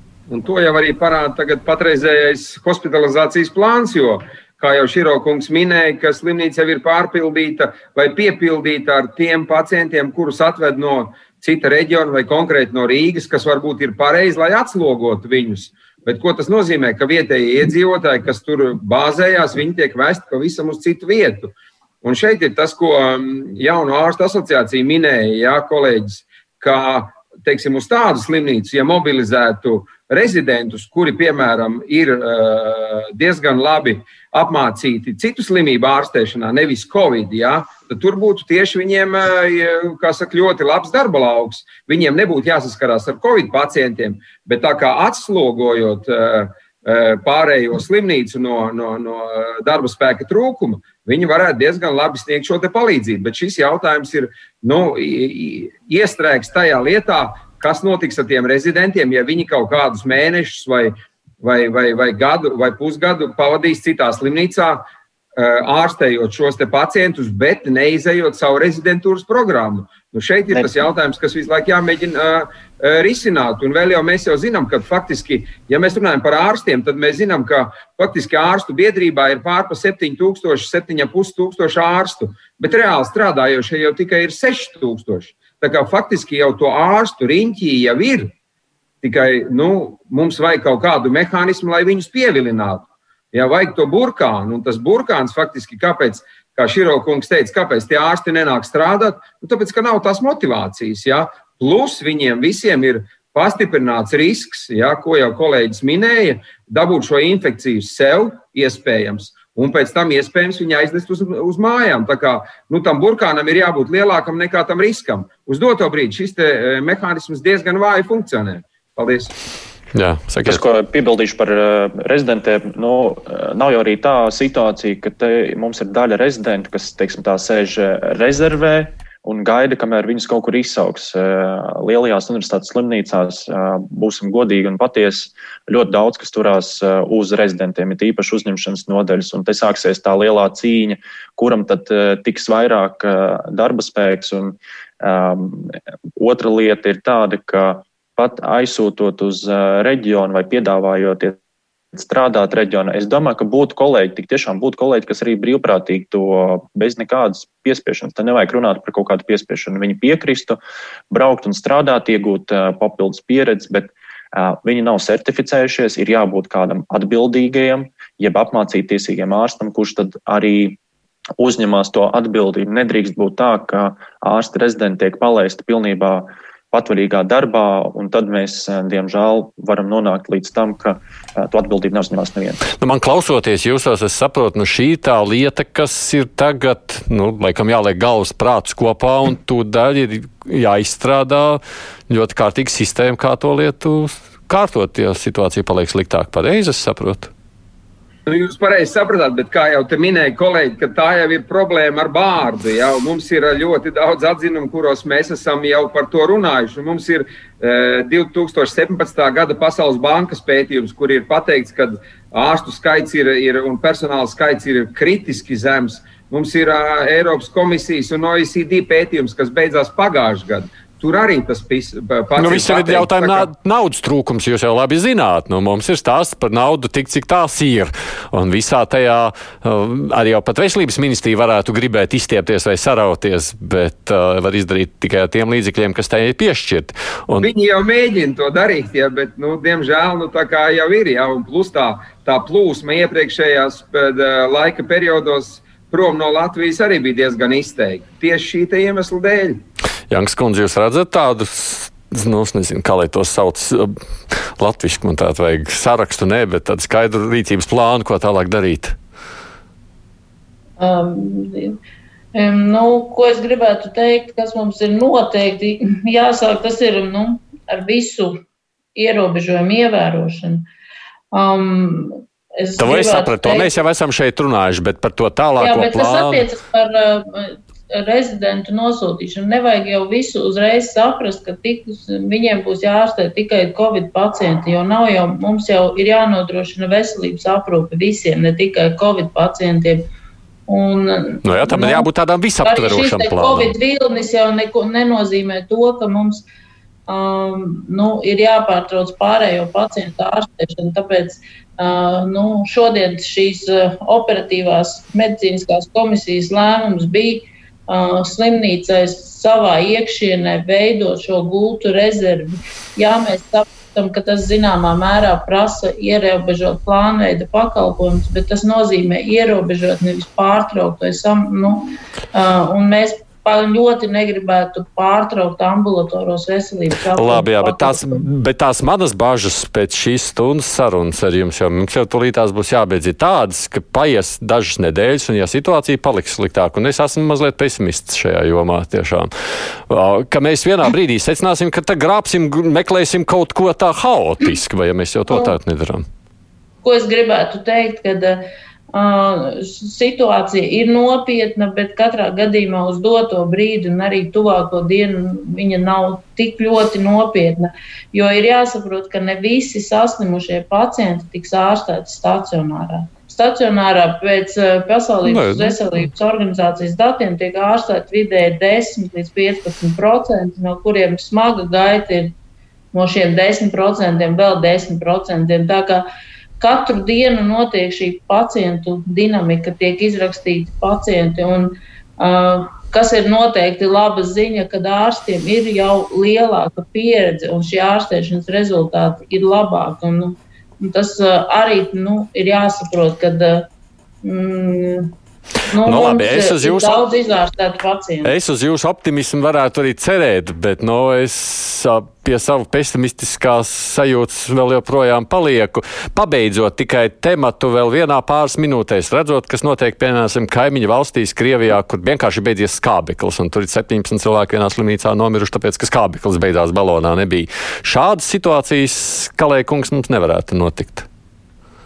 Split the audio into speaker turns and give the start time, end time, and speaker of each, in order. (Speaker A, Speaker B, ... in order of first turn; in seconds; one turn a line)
Speaker A: 0.3-64.8
Speaker A: 65.3-88.3
Speaker A: 89.0-119.3
Speaker B: 119.9-120.6
Speaker C: 120.4-151.4
Speaker C: 151.9-160.6
Speaker C: 161.1-170.8
Speaker C: 171.4-182.7
Speaker B: 182.8-197.3
Speaker A: 198.2-223.5
Speaker B: 222.3-237.5
Speaker A: 237.4-249.6
Speaker B: 250.1-259.0
Speaker D: 260.8-261.8
Speaker D: 262.3-268.4
Speaker D: 268.9-270.6
Speaker D: 271.3-273.7
Speaker B: 272.8-276.4
Speaker D: 275.6-290.1
Speaker D: 290.7-292.1
Speaker B: 291.4-293.7
Speaker D: 292.6-296.4
Speaker D: 297.1-328.2
Speaker B: 327.1-346.1
Speaker D: 345.3-345.6
Speaker D: 346.8-372.3
Speaker B: 365.2-366.1
Speaker D: 372.9-376.1
Speaker D: 376.6-393.7
Speaker D: 394.2-395.1
Speaker D: 395.7-398.3
Speaker B: 395.8-397.0
Speaker B: 398.2-421.1